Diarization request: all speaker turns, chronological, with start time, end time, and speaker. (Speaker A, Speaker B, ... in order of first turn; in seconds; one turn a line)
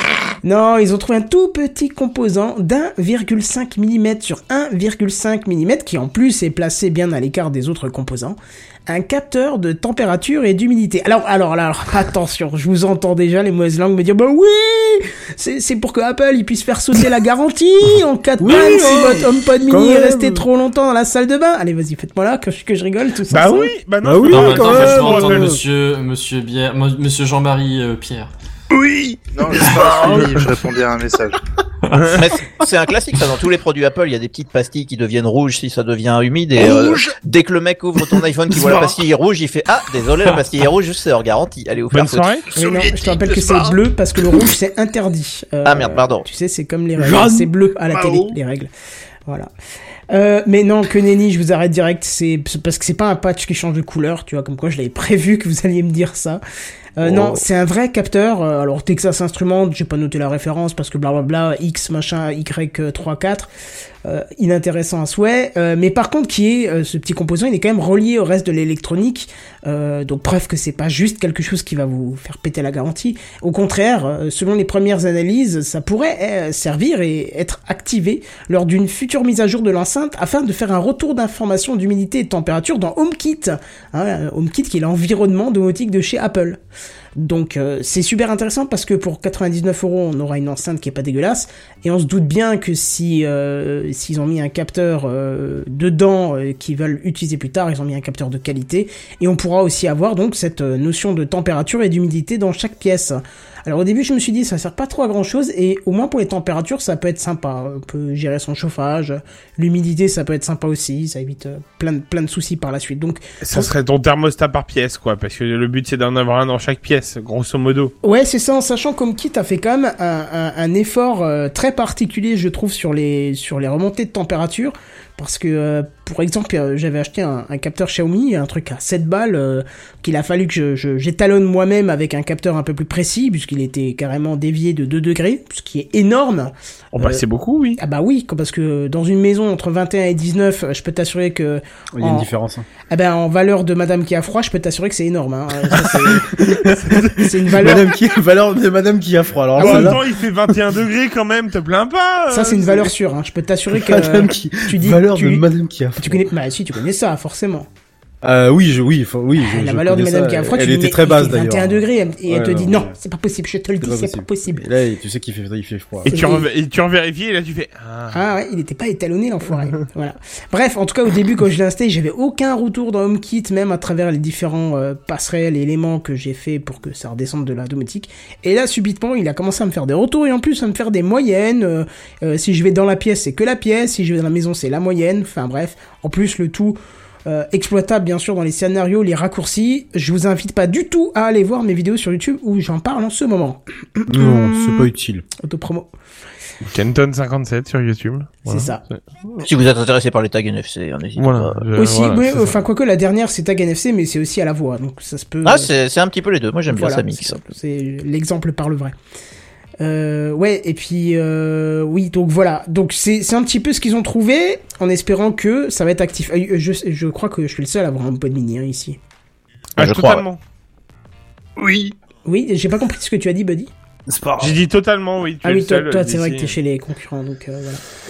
Speaker A: 0.4-23.7
Speaker B: 18.4-20.5
Speaker C: 18.5-19.2
Speaker C: 23.3-25.5
Speaker B: 24.0-25.6
Speaker D: 24.3-28.3
Speaker E: 28.8-31.4
Speaker B: 29.9-30.5
Speaker C: 31.9-32.2
Speaker F: 32.1-42.4
Speaker E: 36.6-37.2
Speaker C: 41.9-42.5
Speaker E: 42.5-43.8
Speaker A: 42.6-48.7
Speaker F: 45.6-46.3
Speaker E: 47.9-48.4
Speaker A: 50.1-56.4
Speaker A: 57.0-63.5
Speaker A: 64.0-86.6
Speaker A: 87.2-113.7
Speaker C: 113.4-117.9
Speaker A: 118.0-137.2
Speaker C: 136.9-137.8
Speaker A: 137.8-142.3
Speaker B: 141.9-142.7
Speaker A: 142.9-146.3
Speaker B: 146.4-150.0
Speaker A: 147.2-148.0
Speaker C: 149.6-152.9
Speaker A: 149.6-149.9
Speaker A: 152.3-155.5
Speaker B: 153.7-156.3
Speaker A: 156.0-157.7
Speaker B: 158.2-162.9
Speaker A: 159.4-164.6
Speaker B: 163.8-166.2
Speaker A: 166.1-166.5
Speaker C: 166.1-168.2
Speaker A: 168.1-194.9
Speaker B: 194.1-195.2
Speaker A: 195.4-195.9
Speaker C: 196.7-199.5
Speaker A: 198.5-198.8
Speaker F: 199.4-201.7
Speaker C: 201.2-202.6
Speaker A: 201.8-205.7
Speaker F: 205.4-207.4
Speaker A: 206.7-208.9
Speaker A: 209.8-219.0
Speaker F: 219.8-220.2
Speaker C: 219.8-220.4
Speaker E: 221.6-221.9
Speaker A: 222.2-223.7
Speaker E: 224.1-224.6
Speaker C: 224.4-226.6
Speaker A: 225.4-227.8